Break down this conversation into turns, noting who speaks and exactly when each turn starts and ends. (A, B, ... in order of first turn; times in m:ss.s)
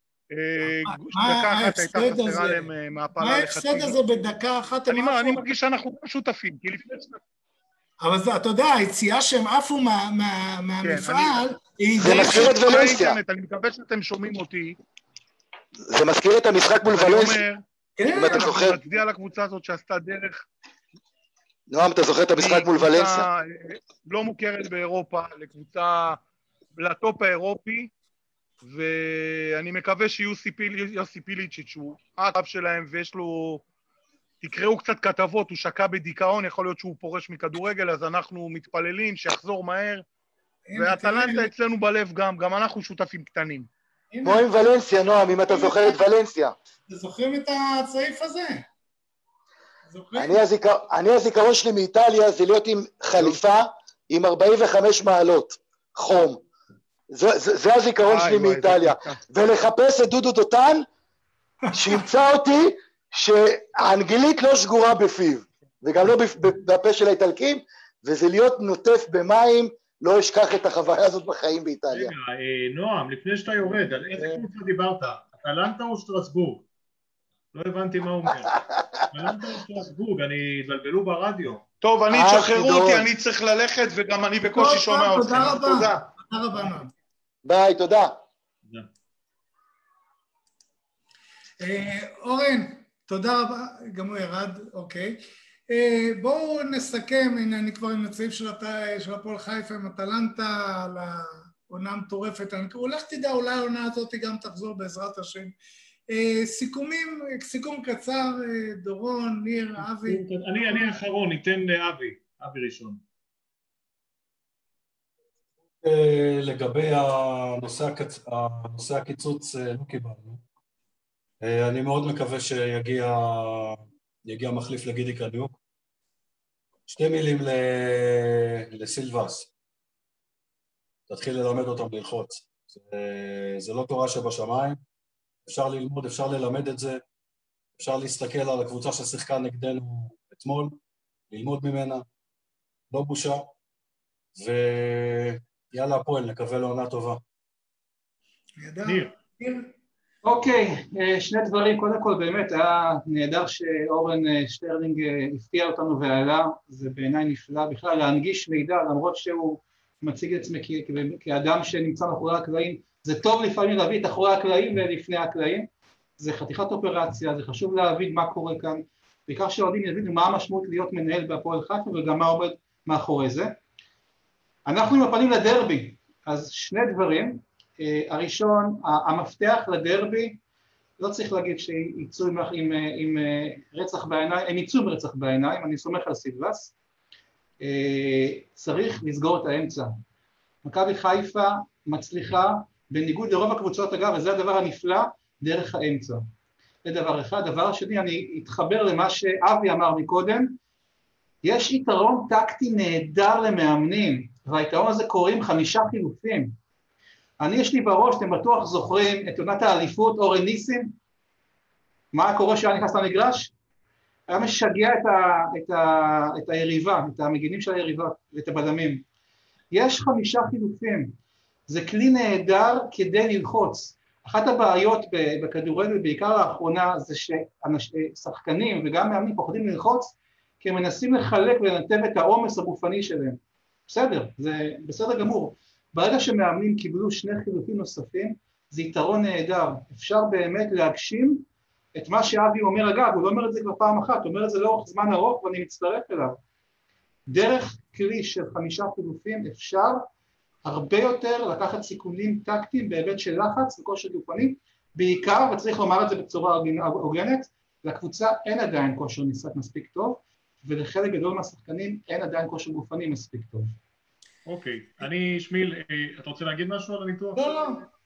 0:00.3-0:04.2 A
0:00.9-0:02.7 B
0:03.2-0:05.4 B
0:04.9-0:07.2 A
0:08.0-0:12.6 B
0:10.8-0:11.4 A
0:12.0-0:13.2 C
0:12.0-0:14.8 A
0:15.9-0:17.4 C
0:16.9-0:17.6 A
0:18.0-0:18.6 B
0:18.1-0:18.8 C
0:18.2-0:20.5 A
0:21.7-0:23.3 C
0:22.4-0:26.2 A
0:26.8-0:27.9 A
0:28.6-0:33.6 A
0:34.4-0:40.0 A
0:40.7-0:41.5 B
0:40.8-0:43.7 A
0:44.1-0:44.5 B
0:44.2-0:46.6 C
0:45.5-0:46.0 B
0:46.9-0:48.6 B
0:49.9-0:50.4 B
0:50.2-0:56.4 C
0:57.1-1:00.9 C
0:58.0-0:59.2 A
1:01.7-1:12.1 C
1:11.9-1:16.6 D
1:17.5-1:18.6 D
1:18.5-1:18.8 C
1:19.1-1:21.6 D
1:21.8-1:26.1 A
1:22.1-1:23.1 C
1:24.6-1:26.9 B
1:27.4-1:28.2 C
1:31.6-1:45.5 B
1:46.1-1:50.2 B
1:49.8-1:53.0 D
1:55.8-2:00.4 E
2:01.4-2:05.5 E
2:06.9-2:09.5 E
2:11.1-2:14.8 E
2:15.5-2:17.0 E
2:17.8-2:20.8 E
2:21.3-2:22.0 E
2:22.9-2:23.4 E
2:24.4-2:27.2 E
2:28.6-2:29.7 B
2:28.8-2:29.1 D
2:30.2-2:45.7 F
2:46.2-2:53.5 F
2:54.7-3:00.4 F
3:01.0-3:06.7 F
3:07.6-3:10.0 F
3:10.6-3:16.2 F
3:16.8-3:20.6 F
3:21.4-3:26.6 F
3:27.4-3:30.9 F
3:32.1-3:33.5 F
3:34.3-3:39.0 F
3:39.7-3:41.2 F
3:41.7-4:01.4 F
4:02.0-4:06.4 F
4:07.3-4:10.0 F
4:10.6-4:23.7 F
4:24.5-4:27.8 D
4:27.4-4:27.9 B